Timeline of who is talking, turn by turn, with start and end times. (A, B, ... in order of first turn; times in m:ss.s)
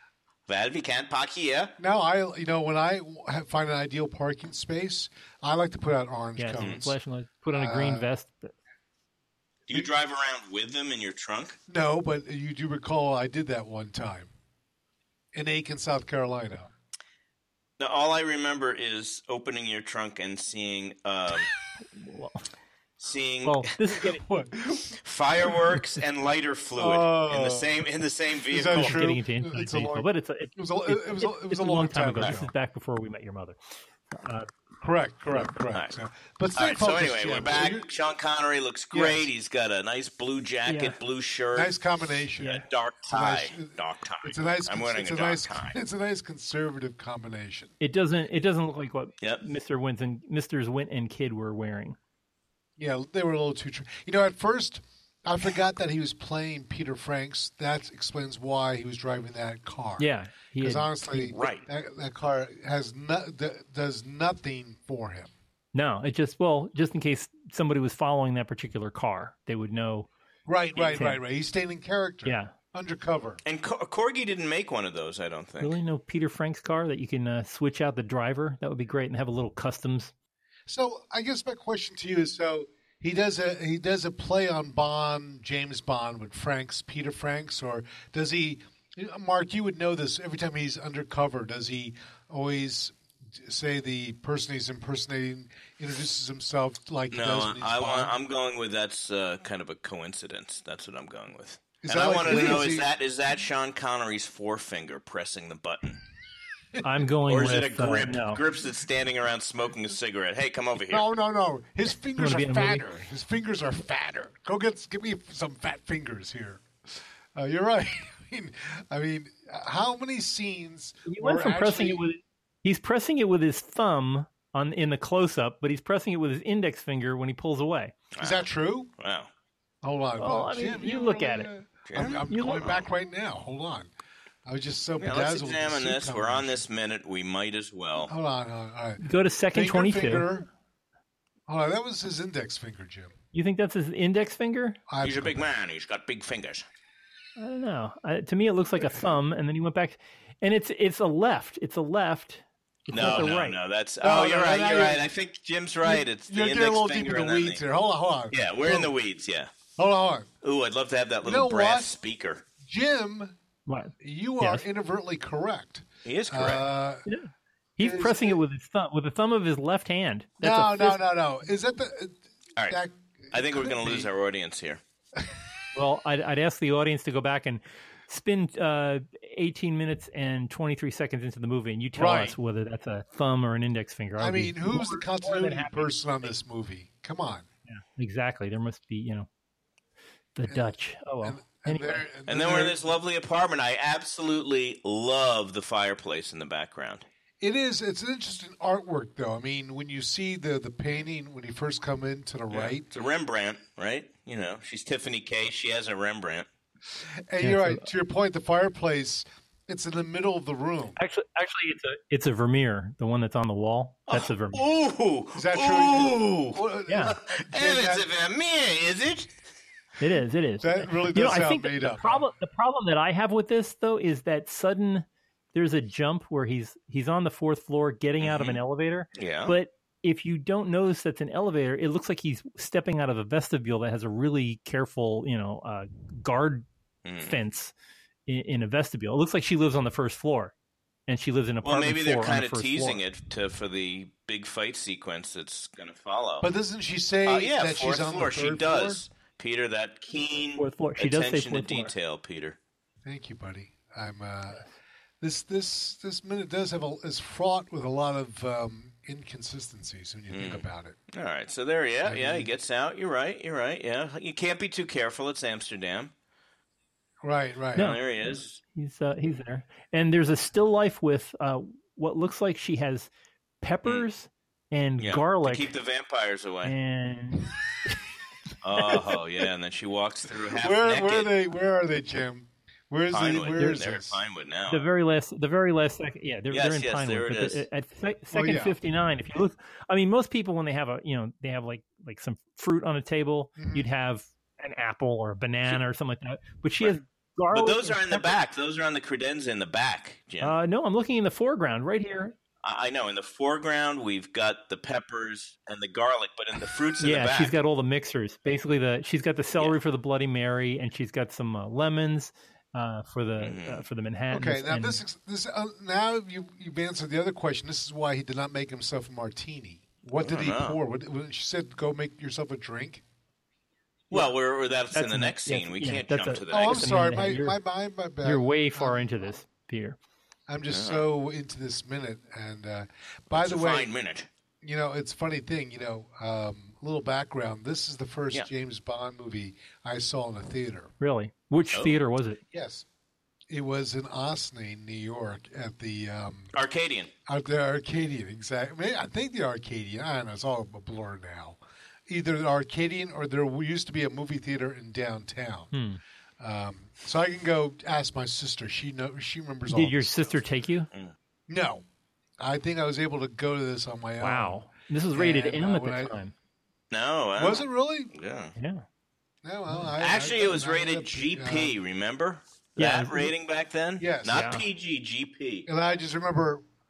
0:00.5-0:01.7 A
0:01.8-0:06.9 B
0:06.4-0:08.5 C
0:06.6-0:06.8 A
0:07.5-0:08.1 B
0:09.7-0:11.6 A
0:11.7-0:14.3 B
0:15.3-0:16.7 B
0:17.8-0:21.5 A
0:21.9-0:22.4 C
0:23.0-0:23.7 A
0:23.4-0:24.2 C
0:24.2-0:25.0 B
0:25.0-0:29.0 A
0:26.8-0:27.8 B
0:28.5-0:32.5 B
0:28.7-0:33.6 C
0:32.2-0:32.4 A
0:34.1-0:34.5 C
0:34.8-0:37.8 B
0:35.7-0:36.0 A
0:36.6-0:41.7 A
0:38.9-0:39.3 B
0:40.6-0:41.0 C
0:41.5-0:47.7 B
0:42.4-0:42.6 C
0:42.4-0:45.8 A
0:47.8-0:52.0 C
0:52.8-1:00.1 B
1:00.0-1:01.3 C
1:00.6-1:05.3 B
1:01.2-1:01.7 A
1:05.7-1:10.1 C
1:10.5-1:13.4 B
1:10.7-1:11.2 C
1:12.2-1:12.5 C
1:13.4-1:15.8 A
1:15.6-1:20.1 C
1:20.7-1:38.1 B
1:37.1-1:46.0 A
1:41.8-1:42.9 B
1:46.8-1:48.4 C
1:47.3-1:51.0 A
1:50.8-1:56.6 B
1:52.2-1:52.9 C
1:57.4-2:02.0 B
2:01.0-2:07.9 C
2:08.1-2:08.4 A
2:08.2-2:08.9 B
2:09.0-2:09.3 A
2:09.8-2:13.9 B
2:10.2-2:11.5 C
2:11.9-2:12.8 A
2:12.3-2:12.7 C
2:14.4-2:16.6 B
2:15.0-2:18.1 A
2:18.1-2:20.5 B
2:19.0-2:20.3 C
2:21.5-2:23.1 B
2:23.3-2:24.8 C
2:24.9-2:25.5 B
2:25.0-2:26.6 A
2:27.4-2:33.6 C
2:32.9-2:33.3 B
2:32.9-2:37.6 A
2:34.0-2:35.1 B
2:35.8-2:39.0 B
2:38.3-2:39.5 A
2:39.8-2:40.3 B
2:40.4-2:42.4 A
2:41.2-2:42.0 B
2:42.6-2:43.3 B
2:43.6-2:44.6 C
2:44.0-2:47.0 B
2:46.0-2:46.6 A
2:47.0-2:51.0 C
2:47.8-2:48.4 B
2:50.4-2:54.1 B
2:53.3-2:54.8 A
2:55.7-3:06.3 C
3:01.9-3:02.4 B
3:04.2-3:07.4 B
3:07.6-3:09.3 C
3:10.3-3:12.0 C
3:10.5-3:12.8 B
3:12.3-3:17.0 A
3:17.4-3:22.8 B
3:22.5-3:26.5 A
3:27.3-3:31.0 B
3:27.4-3:27.8 C
3:31.0-3:34.6 C
3:34.1-3:39.3 A
3:35.3-3:38.0 B
3:36.9-3:37.1 C
3:40.0-3:56.6 C
3:40.6-3:42.3 B
3:48.2-3:48.6 A
3:49.2-3:49.6 A
3:57.0-3:57.4 A
3:57.2-3:57.7 C
3:58.3-4:00.5 C
4:01.1-4:03.0 C
4:01.6-4:06.5 A
4:06.4-4:09.0 B
4:07.2-4:12.6 A
4:10.6-4:11.9 C
4:13.0-4:14.7 B
4:15.2-4:21.0 B
4:20.3-4:26.1 A
4:22.0-4:22.5 B
4:27.2-4:27.9 B
4:27.7-4:28.6 A
4:27.7-4:35.7 C
4:35.0-4:36.7 A
4:36.6-4:37.5 C
4:38.6-4:41.3 A
4:40.6-4:44.2 B
4:43.1-4:44.8 A
4:44.7-4:58.3 C
4:46.5-4:47.6 A
4:48.3-4:48.8 B
4:53.6-4:53.9 B
4:57.5-5:00.5 A
5:00.4-5:02.3 C
5:02.6-5:07.5 A
5:07.0-5:15.0 C
5:13.4-5:13.9 A
5:14.3-5:23.0 B
5:20.2-5:20.8 A
5:24.1-5:26.8 A
5:24.9-5:27.6 C
5:26.5-5:29.4 B
5:28.2-5:30.0 C
5:30.5-5:33.9 B
5:30.7-5:31.0 A
5:33.3-5:34.3 A
5:34.6-5:40.9 B
5:41.0-5:42.4 C
5:41.7-5:42.0 A
5:42.5-5:42.8 B
5:43.5-5:46.5 B
5:46.5-5:47.1 A
5:47.3-5:55.7 B
5:55.7-5:56.0 C
5:56.4-6:00.4 B
5:59.7-6:00.9 C
6:01.5-6:01.8 B
6:02.4-6:06.1 B
6:04.2-6:06.3 C
6:06.9-6:08.5 A
6:07.4-6:08.1 B
6:08.6-6:08.8 C
6:09.4-6:11.8 B
6:10.0-6:15.7 A
6:12.8-6:13.3 C
6:14.0-6:14.4 B
6:14.3-6:14.6 C
6:15.6-6:16.6 B